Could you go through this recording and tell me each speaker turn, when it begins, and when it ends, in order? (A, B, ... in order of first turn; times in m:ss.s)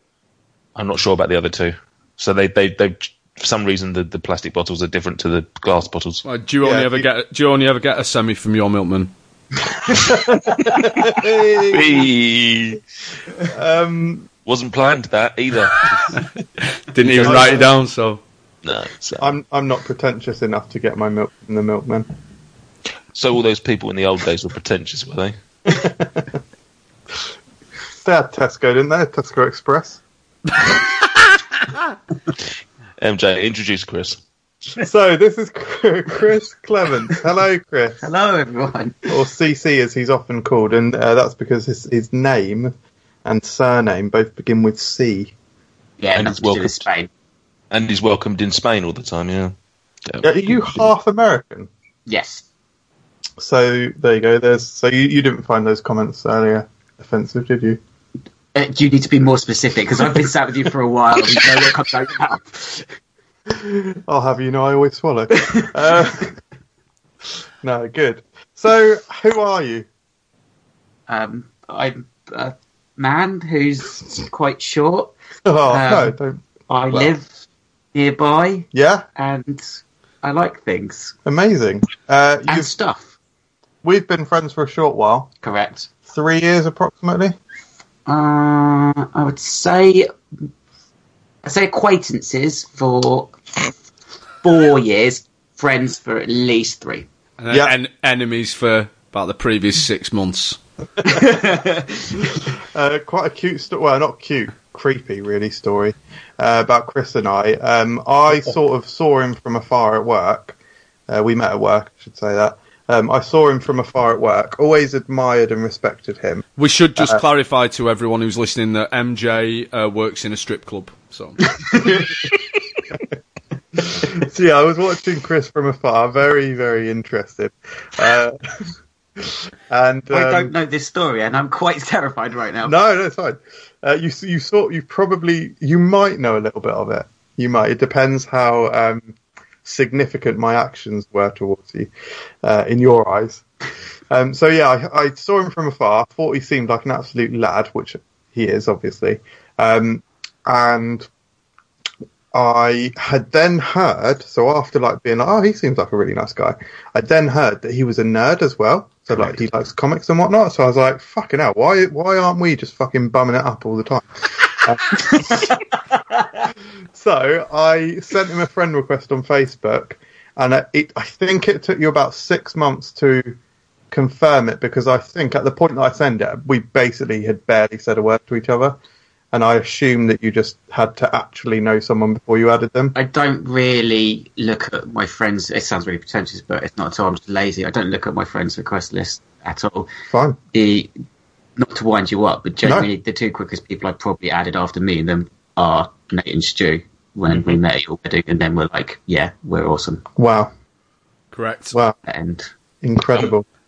0:00.8-0:06.2 A
0:06.2-0:09.1 B
0:06.6-0:07.0 C
0:09.9-0:12.1 C
0:11.7-0:12.8 A
0:13.4-0:14.3 C
0:14.4-0:16.2 A
0:16.7-0:18.2 B
0:17.0-0:17.7 C
0:18.6-0:19.3 A
0:19.2-0:22.1 C
0:23.1-0:25.3 A
0:25.7-0:26.4 C
0:28.0-0:30.0 C
0:33.0-0:34.2 A
0:34.8-0:38.0 C
0:38.0-0:39.1 D
0:39.1-0:42.7 C
0:43.2-0:45.3 C
0:46.0-0:47.1 D
0:46.1-0:46.8 A
0:47.7-0:49.5 A
0:50.2-0:51.7 C
0:52.0-0:52.4 D
0:53.4-0:57.8 C
0:58.5-1:02.9 D
1:03.5-1:06.3 C
1:07.6-1:09.9 C
1:11.1-1:15.1 D
1:15.4-1:17.1 C
1:15.7-1:16.1 D
1:16.7-1:17.3 D
1:17.9-1:21.1 D
1:18.7-1:19.0 C
1:21.2-1:22.7 C
1:22.5-1:23.1 D
1:23.8-1:25.3 C
1:25.4-1:25.9 D
1:26.1-1:27.4 C
1:28.0-1:30.1 D
1:31.4-1:33.6 D
1:34.4-1:37.1 D
1:37.4-1:40.6 B
1:37.5-1:37.8 C
1:41.0-1:42.3 D
1:42.7-1:50.6 C
1:51.1-1:56.4 C
1:56.6-2:01.6 B
1:57.0-1:57.2 C
2:01.6-2:02.3 D
2:03.8-2:08.4 C
2:09.2-2:10.5 C
2:10.1-2:12.7 D
2:12.6-2:21.9 C
2:22.4-2:23.4 C
2:24.1-2:31.1 C
2:32.3-2:45.6 C
2:46.9-2:53.4 C
2:53.9-2:58.8 C
2:59.3-3:03.0 C
3:02.9-3:09.9 D
3:10.1-3:10.4 C
3:10.5-3:10.9 D
3:11.6-3:20.0 D
3:12.6-3:12.9 C
3:20.2-3:20.5 C
3:21.3-3:21.7 B
3:22.0-3:22.5 D
3:22.8-3:23.4 C